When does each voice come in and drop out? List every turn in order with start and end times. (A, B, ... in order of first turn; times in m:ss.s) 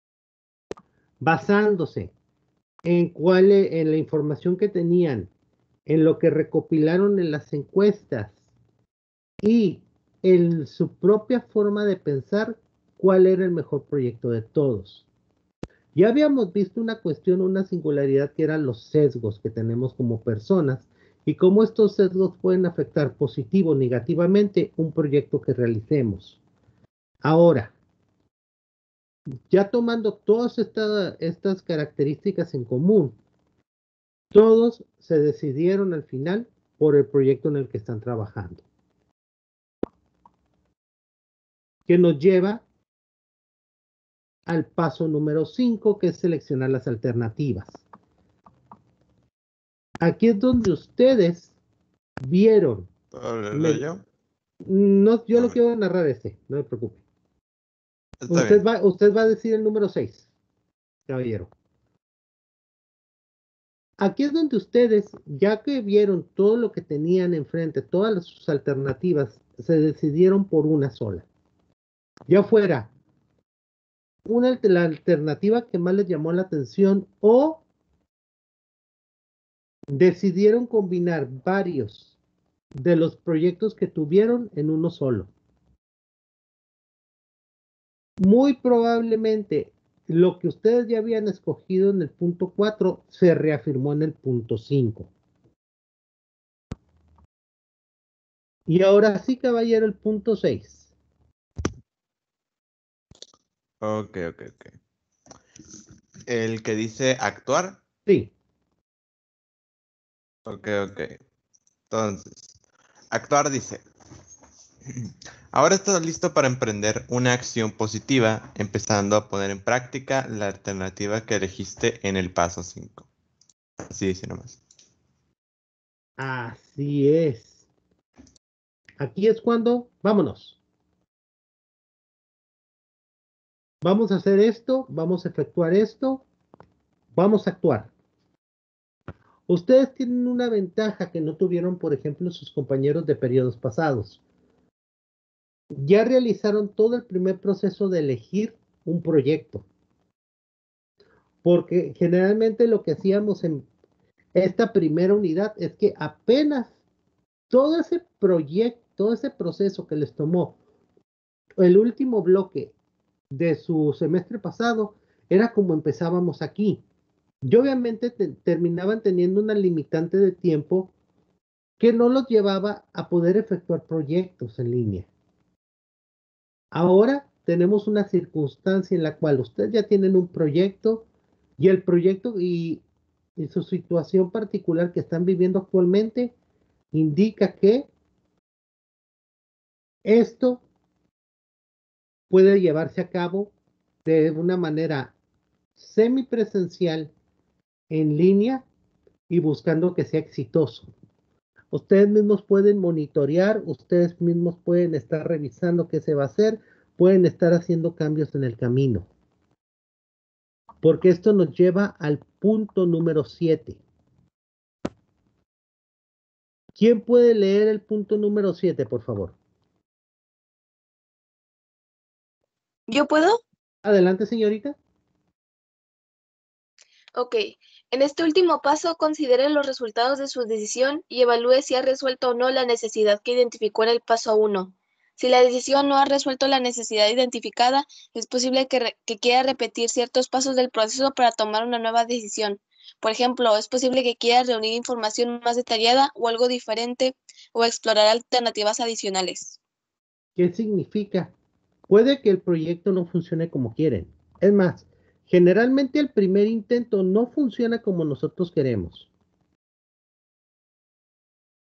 0:01.2-0:02.1 A
0:02.8-0:05.3 A
0:05.9-0:08.4 A
0:09.4-0:15.0 A
0:16.0-0:26.4 A
0:27.2-0:27.7 A
0:29.5-0:33.2 A
0:34.3-0:38.6 A
0:41.9-0:42.6 A
0:44.5-0:47.8 A
0:50.0-0:51.5 A
0:52.2-0:52.9 A
0:53.1-0:54.0 B
0:53.5-0:53.8 A
0:54.6-0:57.0 A
0:58.2-0:58.6 B
0:58.3-1:00.3 A
1:01.1-1:01.5 A
1:04.0-1:11.2 A
1:12.3-1:12.9 A
1:14.3-1:17.6 A
1:19.9-1:22.2 A
1:22.8-1:25.3 A
1:28.2-1:35.1 A
1:38.7-1:40.9 A
1:43.8-1:44.8 B
1:46.3-1:47.8 B
1:48.1-1:48.3 A
1:50.5-1:51.2 B
1:51.9-1:52.6 B
1:53.1-1:53.8 B
1:55.5-2:03.1 B
2:03.9-2:04.6 B
2:06.2-2:07.7 A
2:09.0-2:10.6 A
2:13.8-2:16.2 A
2:17.1-2:17.9 A
2:19.5-2:24.2 A
2:25.7-2:29.6 A
2:31.4-2:33.6 A
2:34.4-2:36.7 A
2:37.5-2:40.6 A
2:41.6-2:42.7 A
2:43.3-2:46.8 A
2:47.4-2:50.9 A
2:51.8-2:55.1 A
2:56.7-3:01.1 A
3:01.6-3:02.8 A
3:03.4-3:06.3 A
3:06.9-3:07.9 A
3:10.0-3:10.6 A
3:12.3-3:13.5 A
3:14.0-3:15.1 A
3:15.8-3:17.1 A
3:17.9-3:18.6 A
3:19.3-3:20.9 A
3:21.7-3:29.1 A
3:30.8-3:33.8 A
3:36.8-3:39.4 A
3:42.9-3:43.4 C
3:43.8-3:44.8 A
3:47.2-4:09.6 C
4:10.4-4:11.3 A
4:11.9-4:19.1 A